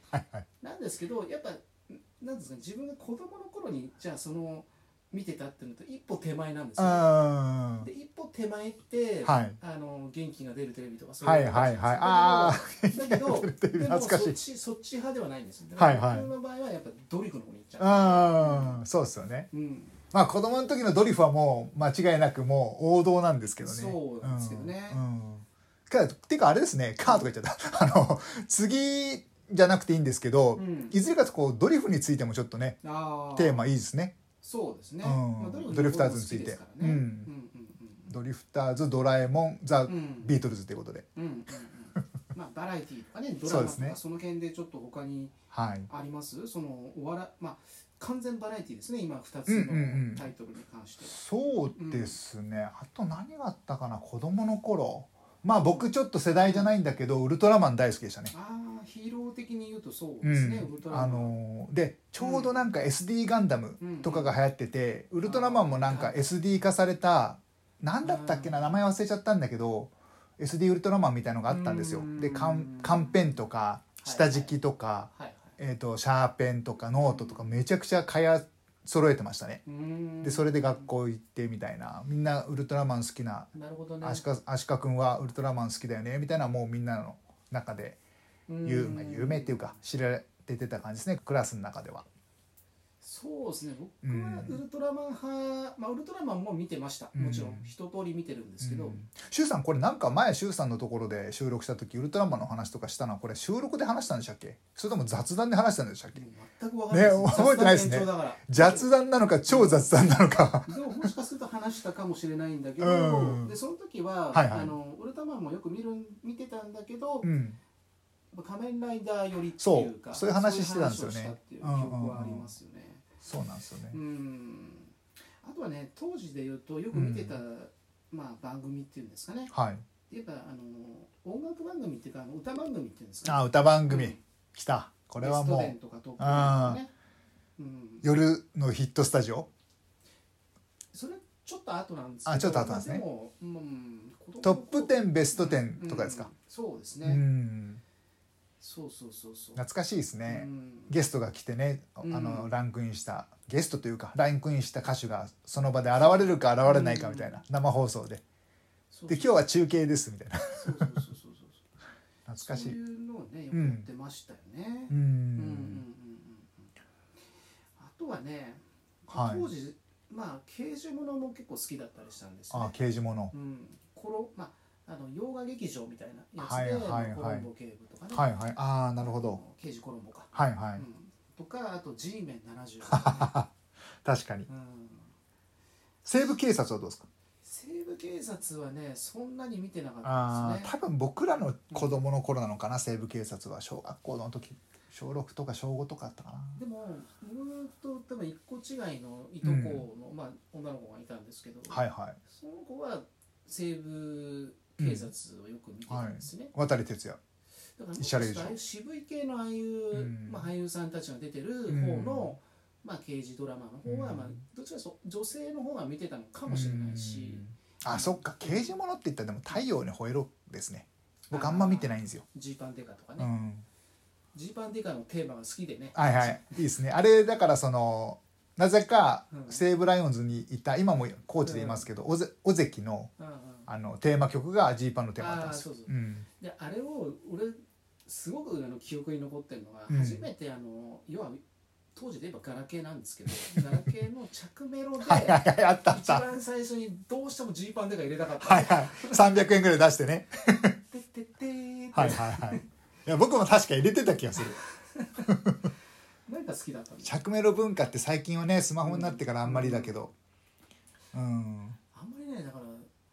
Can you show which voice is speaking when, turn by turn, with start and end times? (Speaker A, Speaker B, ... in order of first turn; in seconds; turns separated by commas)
Speaker A: 0.1-0.5, Speaker B: 0.6-7.1, Speaker A: 6.8-7.9, Speaker B: 7.8-18.8, Speaker A: 9.2-9.6, Speaker A: 11.2-14.4, Speaker A: 15.8-16.3, Speaker A: 17.8-19.5, Speaker B: 19.5-20.0, Speaker A: 20.1-32.8, Speaker B: 23.6-25.0, Speaker B: 30.6-31.0, Speaker B: 32.8-33.7, Speaker A: 33.3-34.1, Speaker B: 34.4-38.1, Speaker A: 35.0-37.3, Speaker A: 38.1-41.1, Speaker B: 39.8-40.4, Speaker B: 41.1-45.4, Speaker A: 43.4-44.0, Speaker A: 45.5-45.9, Speaker B: 45.9-51.2, Speaker A: 49.5-50.3, Speaker A: 51.1-58.3, Speaker B: 51.7-52.2, Speaker B: 55.5-56.7, Speaker B: 58.3-61.3, Speaker A: 60.2-79.6, Speaker B: 62.2-62.6, Speaker B: 63.8-64.3, Speaker B: 65.2-66.3, Speaker B: 68.0-68.8, Speaker B: 71.5-73.3, Speaker B: 74.0-74.5, Speaker B: 75.1-75.5, Speaker B: 77.0-77.5, Speaker B: 79.7-80.9, Speaker A: 80.2-83.5, Speaker B: 83.5-84.2, Speaker A: 84.0-88.0, Speaker B: 88.5-89.7, Speaker A: 88.6-92.0, Speaker B: 93.0-99.0, Speaker A: 94.0-94.6, Speaker A: 97.1-97.7, Speaker A: 98.6-106.2, Speaker B: 106.1-108.9, Speaker A: 106.9-111.1, Speaker B: 109.5-117.3, Speaker A: 112.8-113.5, Speaker A: 114.3-114.7, Speaker A: 117.2-117.6, Speaker B: 118.3-123.0, Speaker A: 119.6-122.5, Speaker A: 123.2-124.0, Speaker B: 123.9-129.5, Speaker A: 126.9-127.4, Speaker A: 129.5-129.8, Speaker B: 130.1-134.2, Speaker A: 133.2-136.8, Speaker B: 135.2-136.9, Speaker B: 137.6-138.1, Speaker A: 138.0-139.5, Speaker B: 140.9-147.2, Speaker A: 142.2-143.0, Speaker A: 144.4-146.3, Speaker A: 147.0-147.8, Speaker B: 148.6-149.6, Speaker A: 149.6-158.2, Speaker B: 150.2-150.9, Speaker B: 152.0-152.5, Speaker B: 156.0-157.4, Speaker B: 158.9-159.4, Speaker A: 159.1-160.9, Speaker B: 160.5-161.6, Speaker A: 162.3-162.8, Speaker B: 162.4-166.7, Speaker A: 163.5-163.8, Speaker A: 164.9-165.8, Speaker B: 167.8-172.8, Speaker A: 169.1-169.4, Speaker A: 172.5-173.3, Speaker B: 173.3-178.3, Speaker A: 176.4-177.5, Speaker A: 178.1-179.4, Speaker B: 179.0-183.4, Speaker A: 180.3-180.8, Speaker A: 182.9-183.5, Speaker A: 184.0-184.5, Speaker B: 184.5-185.1, Speaker A: 186.0-187.1, Speaker B: 187.4-190.7, Speaker A: 190.0-196.6, Speaker B: 191.7-192.0, Speaker B: 196.5-206.5, Speaker A: 199.4-199.8, Speaker A: 201.7-202.2, Speaker A: 204.8-205.1, Speaker A: 205.9-207.2, Speaker B: 207.8-218.7, Speaker A: 208.0-208.6, Speaker A: 209.9-210.5, Speaker A: 211.7-212.3, Speaker A: 213.8-214.4, Speaker A: 216.5-222.2, Speaker B: 221.3-223.3, Speaker A: 223.2-223.7, Speaker B: 224.3-226.6, Speaker A: 225.9-233.1, Speaker B: 229.3-229.6, Speaker B: 231.4-231.9, Speaker B: 233.2-233.7, Speaker A: 233.7-236.3, Speaker B: 235.2-241.4, Speaker A: 239.9-240.2, Speaker B: 241.9-249.4, Speaker A: 243.3-243.9, Speaker A: 245.0-246.2, Speaker A: 248.4-250.8, Speaker B: 250.9-252.7, Speaker A: 251.9-254.6, Speaker B: 254.6-255.3, Speaker A: 255.2-255.6, Speaker B: 256.3-257.2, Speaker A: 257.0-260.1, Speaker B: 258.8-259.9, Speaker A: 261.1-261.8, Speaker B: 261.9-262.9